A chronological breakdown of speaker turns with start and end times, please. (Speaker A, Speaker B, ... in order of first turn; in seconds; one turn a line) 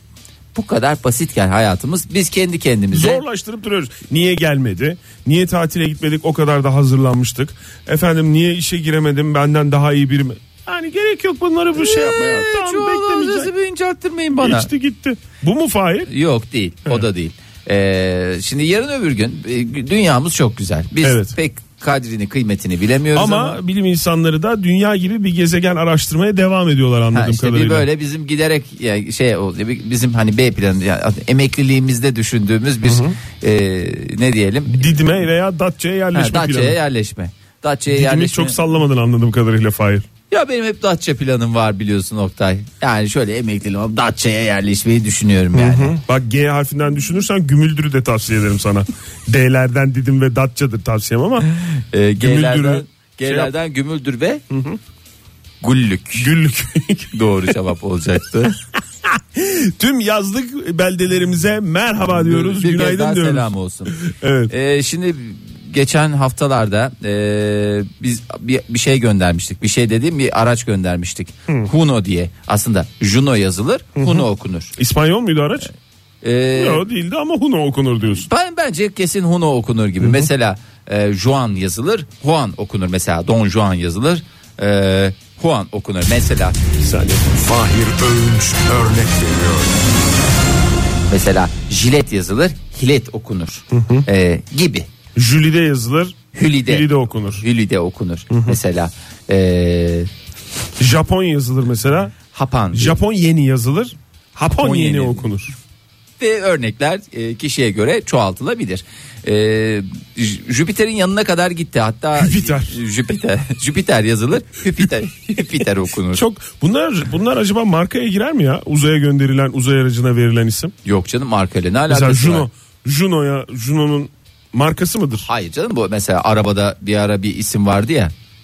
Speaker A: 0.5-3.2
Speaker B: 2.9-13.5
Speaker A: 11.8-14.7
Speaker B: 14.4-16.1
Speaker A: 16.1-23.6
Speaker B: 21.0-21.3
Speaker B: 23.1-27.9
Speaker A: 27.1-35.0
Speaker B: 32.9-33.1
Speaker B: 34.7-36.8
Speaker A: 36.1-38.6
Speaker B: 37.9-40.0
Speaker A: 40.3-46.0
Speaker B: 45.5-51.5
Speaker A: 51.5-54.4
Speaker B: 52.2-53.5
Speaker B: 54.5-54.8
Speaker A: 55.6-56.3
Speaker B: 56.2-57.5
Speaker A: 57.1-58.6
Speaker B: 59.0-64.5
Speaker A: 62.1-64.0
Speaker A: 64.5-74.7
Speaker B: 74.0-75.7
Speaker A: 76.2-76.8
Speaker B: 76.5-78.3
Speaker A: 78.2-86.6
Speaker B: 80.0-80.3
Speaker B: 86.8-87.2
Speaker C: 87.3-89.8
Speaker A: 91.1-94.9
Speaker B: 93.7-94.0
Speaker B: 95.1-97.4
Speaker A: 96.3-100.1
Speaker B: 98.3-98.6
Speaker B: 100.8-102.1
Speaker A: 102.3-103.0
Speaker B: 102.7-105.5
Speaker A: 104.6-105.2
Speaker A: 106.2-116.2
Speaker B: 112.2-112.8
Speaker B: 116.1-120.7
Speaker A: 120.8-122.5
Speaker B: 121.9-125.3
Speaker A: 125.2-128.1